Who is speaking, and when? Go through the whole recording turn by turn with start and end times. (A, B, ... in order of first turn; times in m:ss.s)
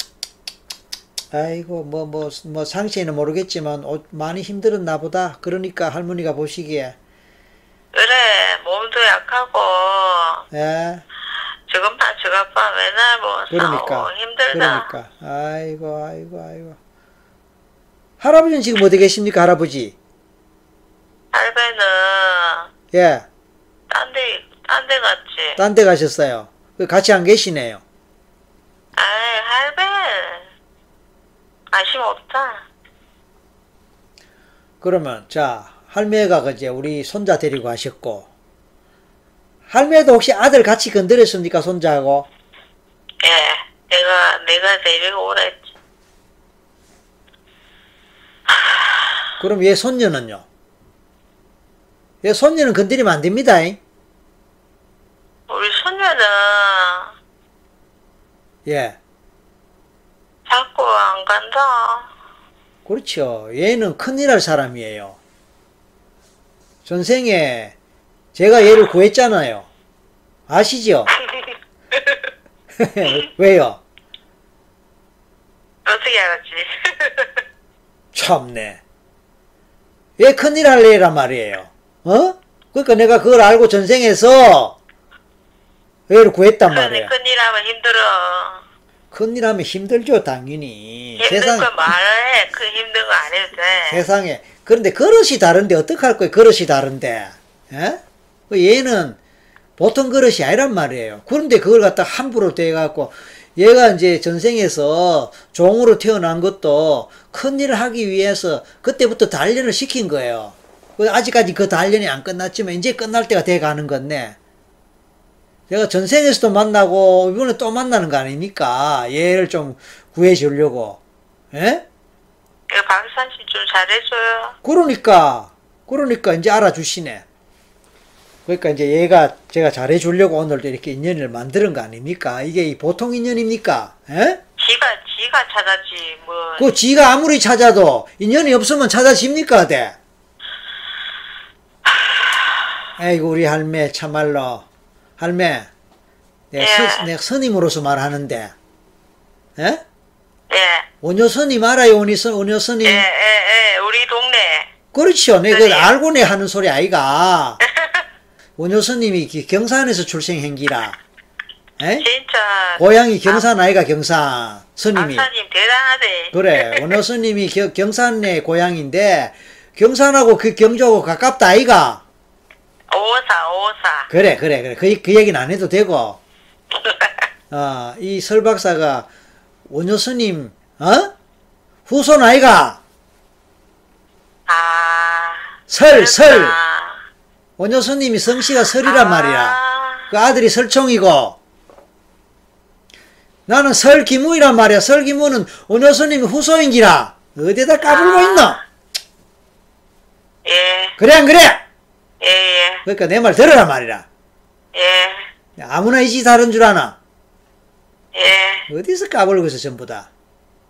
0:01.3-0:07.0 A
0:07.9-0:10.5 B
0:10.5-0:11.0 A
0:11.7-0:14.9 B
0:13.5-0:16.8 A
0:18.2-0:20.0 A
0:21.3-0:22.7 B
0:22.9-0:23.3 A
0:23.9-0:25.6 B
0:25.6-0:27.8 A
0:29.0-0:30.5 B
0:31.7-0:32.6 B
0:34.8-0:38.3 A
0:39.7-0:42.3 A
0:43.2-0:45.7 B
0:49.4-0:50.4 A
0:52.2-0:53.8 A
0:55.5-0:57.2 B
0:58.7-0:59.0 A
1:00.5-1:02.1 B
1:02.9-1:05.2 A
1:06.8-1:07.8 A
1:08.4-1:09.7 A
1:10.5-1:11.1 A
1:11.3-1:12.2 B
1:12.8-1:13.8 A
1:15.9-1:17.4 B
1:18.1-1:18.8 A
1:20.2-1:24.8 A
1:26.1-1:27.1 A
1:26.7-1:28.6 B
1:29.1-1:31.7 A
1:31.2-1:34.0 B
1:33.9-1:39.2 A
1:39.8-1:54.4 A
1:55.7-2:01.0 A
2:01.5-2:01.8 A
2:02.7-2:04.6 B
2:04.6-2:07.2 A
2:08.5-2:14.4 A
2:14.6-2:16.7 B
2:16.6-2:20.0 A
2:23.0-2:24.7 A
2:25.2-2:25.7 A
2:26.5-2:28.5 A
2:26.6-2:27.1 B
2:29.6-2:29.8 A
2:30.5-2:30.9 B
2:31.0-2:33.0 A
2:32.8-2:34.7 B
2:34.9-2:37.6 A
2:35.5-2:35.9 B
2:37.7-2:38.0 B
2:38.6-2:41.0 A
2:41.8-2:42.1 A
2:42.0-2:43.4 B
2:42.8-2:45.3 A
2:45.0-2:47.0 B
2:46.3-2:52.0 A
2:52.9-2:54.1 B
2:54.1-2:56.2 A
2:56.8-2:57.3 B
2:57.5-2:59.1 A
2:59.7-3:01.1 A
3:01.9-3:02.8 A
3:04.5-3:07.0 B
3:05.7-3:06.6 A
3:07.6-3:09.6 A
3:08.8-3:10.1 B
3:10.1-3:11.4 A
3:13.5-3:18.6 A
3:17.8-3:18.6 B
3:20.4-3:21.0 B
3:21.0-3:21.6 A
3:22.2-3:22.8 B
3:22.9-3:24.1 A
3:24.7-3:25.3 B
3:25.6-3:27.0 A
3:28.1-3:28.7 B
3:28.7-3:30.1 A